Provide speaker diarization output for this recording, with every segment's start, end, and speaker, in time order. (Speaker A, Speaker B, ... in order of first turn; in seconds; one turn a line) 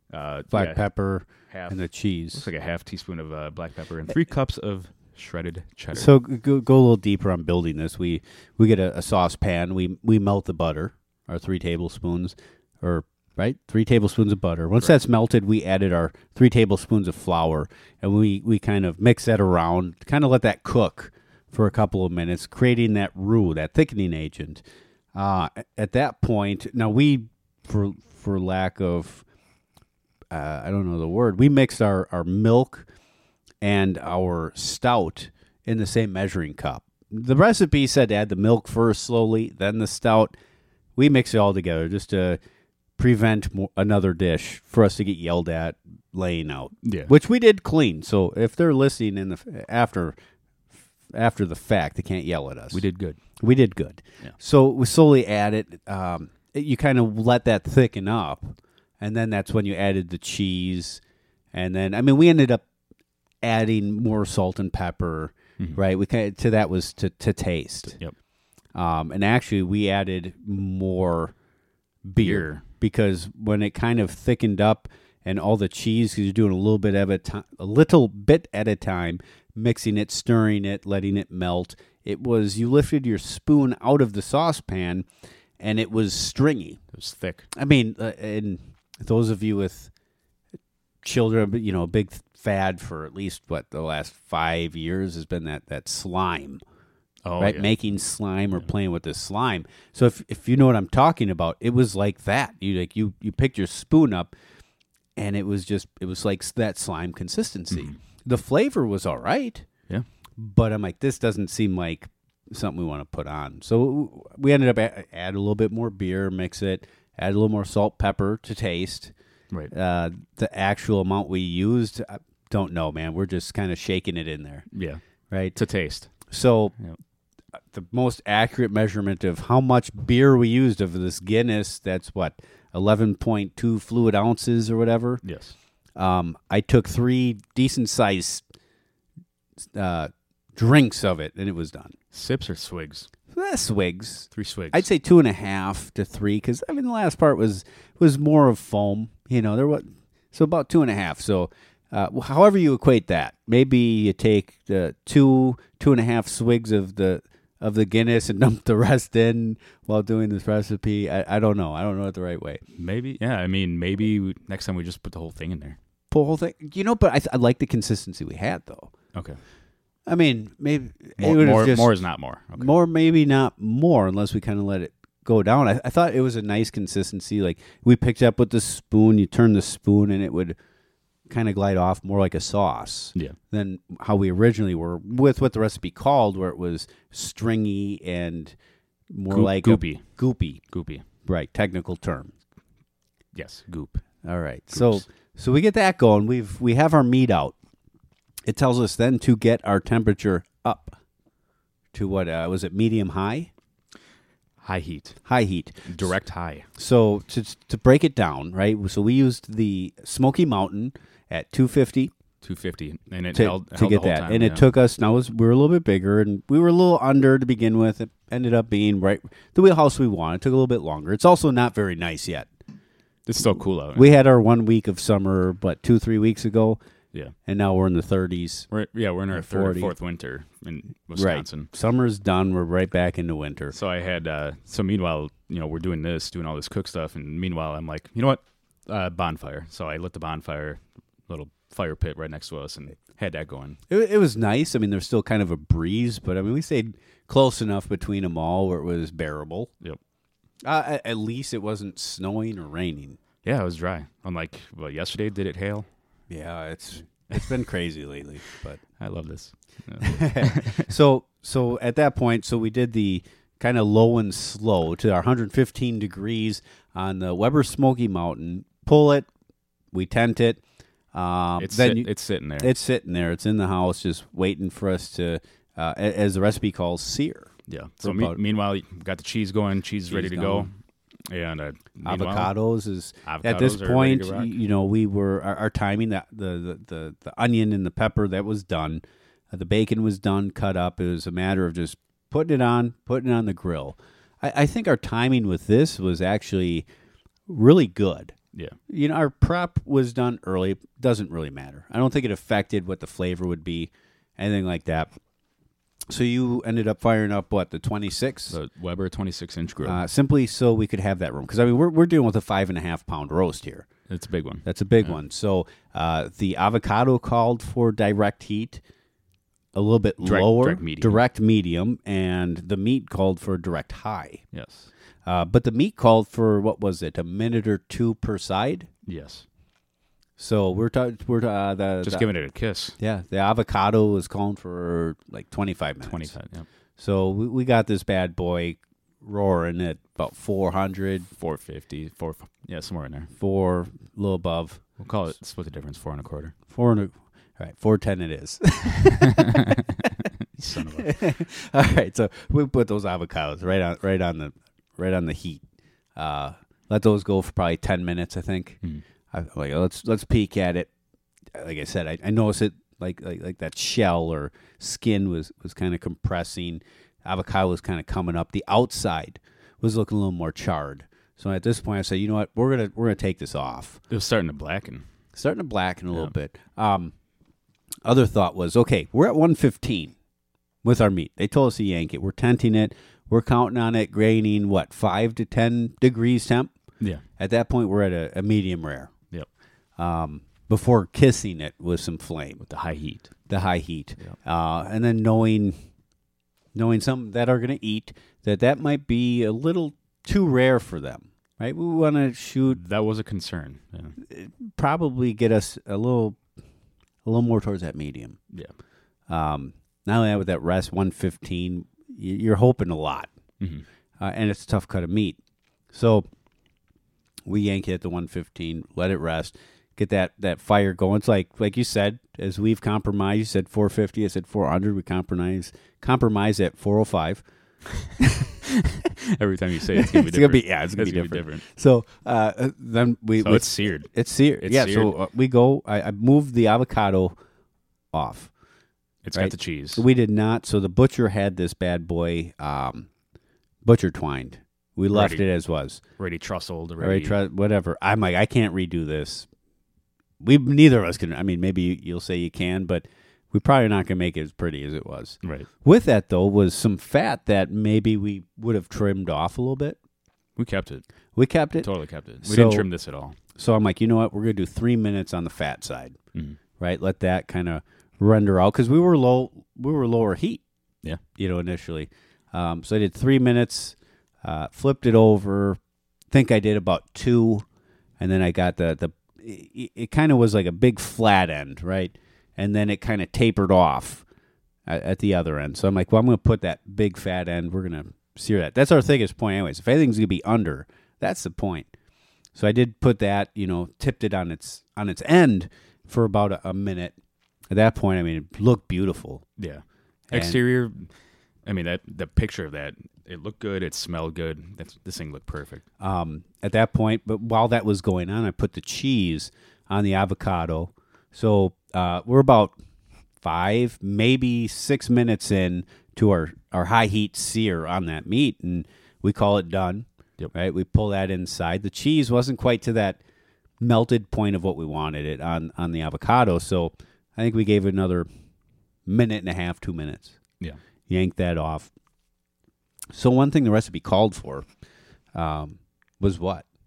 Speaker A: 0.1-0.8
Speaker B: 0.5-2.5
Speaker A: 1.5-1.8
Speaker A: 2.3-6.1
Speaker B: 5.9-24.6
Speaker B: 25.1-29.2
Speaker B: 30.3-32.9
Speaker B: 33.6-40.4
Speaker B: 41.0-42.4
Speaker B: 43.0-50.2
Speaker A: 46.8-47.1
Speaker B: 51.1-52.8
Speaker A: 52.7-53.2
Speaker B: 53.4-61.0
Speaker B: 61.5-62.6
Speaker B: 63.4-68.0
Speaker B: 68.8-71.3
Speaker B: 72.0-85.1
Speaker A: 72.2-72.6
Speaker B: 85.6-86.8
Speaker A: 86.9-87.5
Speaker B: 87.5-89.9
Speaker B: 91.0-96.6
Speaker A: 97.2-97.7
Speaker B: 97.4-104.3
Speaker B: 105.2-109.7
Speaker A: 107.7-108.0
Speaker B: 110.4-119.1
Speaker B: 119.7-124.7
Speaker A: 124.7-125.0
Speaker B: 125.3-125.6
Speaker A: 125.5-126.1
Speaker B: 126.3-126.7
Speaker B: 127.7-135.2
Speaker A: 135.2-135.6
Speaker B: 136.0-138.4
Speaker B: 139.7-142.0
Speaker A: 142.1-143.1
Speaker B: 143.3-162.6
Speaker A: 144.3-144.9
Speaker A: 162.7-165.8
Speaker B: 166.1-168.9
Speaker A: 169.1-169.4
Speaker B: 170.1-172.0
Speaker A: 171.2-172.7
Speaker B: 172.6-180.6
Speaker B: 181.3-188.6
Speaker B: 189.1-190.6
Speaker A: 189.3-190.0
Speaker A: 190.7-191.1
Speaker B: 191.3-192.3
Speaker A: 193.3-194.0
Speaker B: 194.2-197.6
Speaker A: 194.7-195.0
Speaker B: 198.5-201.0
Speaker B: 201.9-203.5
Speaker A: 204.6-205.2
Speaker B: 205.3-206.1
Speaker A: 205.9-206.7
Speaker B: 206.8-212.1
Speaker A: 212.4-214.7
Speaker B: 213.3-222.5
Speaker A: 223.3-224.1
Speaker B: 223.9-226.8
Speaker B: 227.5-228.7
Speaker A: 228.7-231.7
Speaker B: 229.3-229.9
Speaker B: 231.2-233.8
Speaker A: 233.7-243.8
Speaker B: 243.9-249.7
Speaker B: 250.6-253.2
Speaker A: 253.4-255.9
Speaker B: 256.3-258.8
Speaker A: 259.0-260.9
Speaker B: 260.0-269.3
Speaker B: 269.9-270.6
Speaker B: 271.1-278.4
Speaker A: 271.6-272.8
Speaker A: 277.7-280.7
Speaker B: 280.1-280.7
Speaker A: 281.3-282.5
Speaker B: 282.1-296.9
Speaker A: 283.3-284.5
Speaker B: 297.5-298.4
Speaker B: 298.9-305.1
Speaker B: 306.1-308.6
Speaker A: 308.5-310.0
Speaker B: 309.8-313.9
Speaker A: 314.1-315.2
Speaker B: 314.6-318.8
Speaker B: 319.7-324.4
Speaker A: 320.2-321.2
Speaker A: 324.5-324.9
Speaker B: 325.3-328.9
Speaker A: 329.1-329.4
Speaker B: 330.4-332.3
Speaker A: 332.0-333.0
Speaker B: 333.0-336.4
Speaker A: 336.0-336.7
Speaker B: 337.0-341.3
Speaker A: 341.4-343.3
Speaker B: 343.4-344.8
Speaker A: 345.0-346.6
Speaker B: 346.7-350.2
Speaker A: 349.2-351.1
Speaker B: 350.8-355.6
Speaker B: 356.2-358.8
Speaker B: 359.3-360.9
Speaker B: 361.6-374.0
Speaker A: 374.1-375.1
Speaker B: 375.3-377.1
Speaker B: 378.1-380.1
Speaker B: 380.8-386.7
Speaker B: 387.4-389.1
Speaker B: 390.0-392.6
Speaker A: 392.6-393.3
Speaker B: 393.5-395.8
Speaker B: 396.7-402.8
Speaker A: 402.7-404.2
Speaker B: 404.2-406.4
Speaker B: 407.2-408.4
Speaker B: 409.3-413.3
Speaker A: 413.6-413.9
Speaker B: 414.2-415.4
Speaker B: 415.9-416.3
Speaker B: 417.5-427.4
Speaker B: 428.2-428.5
Speaker A: 428.6-431.6
Speaker B: 429.9-437.4
Speaker A: 433.4-434.1
Speaker A: 434.6-435.1
Speaker B: 438.1-438.5
Speaker A: 439.2-440.0
Speaker B: 439.3-443.1
Speaker B: 443.8-446.0
Speaker A: 445.1-445.4
Speaker A: 446.2-447.4
Speaker B: 447.0-449.5
Speaker B: 450.4-460.0
Speaker A: 455.4-455.7
Speaker A: 460.6-461.0
Speaker B: 461.4-461.9
Speaker A: 461.8-463.4
Speaker B: 462.4-462.9
Speaker B: 463.6-466.2
Speaker B: 466.8-470.6
Speaker B: 471.4-475.8
Speaker B: 476.3-477.6
Speaker B: 478.2-484.2
Speaker B: 484.9-491.9
Speaker B: 492.6-497.2
Speaker B: 497.7-499.4
Speaker A: 499.6-501.1
Speaker B: 500.3-500.6
Speaker A: 501.6-505.8
Speaker B: 506.0-512.8
Speaker B: 513.4-523.2
Speaker B: 523.8-528.3
Speaker B: 529.1-530.4
Speaker B: 531.1-531.9
Speaker B: 533.1-534.7
Speaker B: 535.3-536.7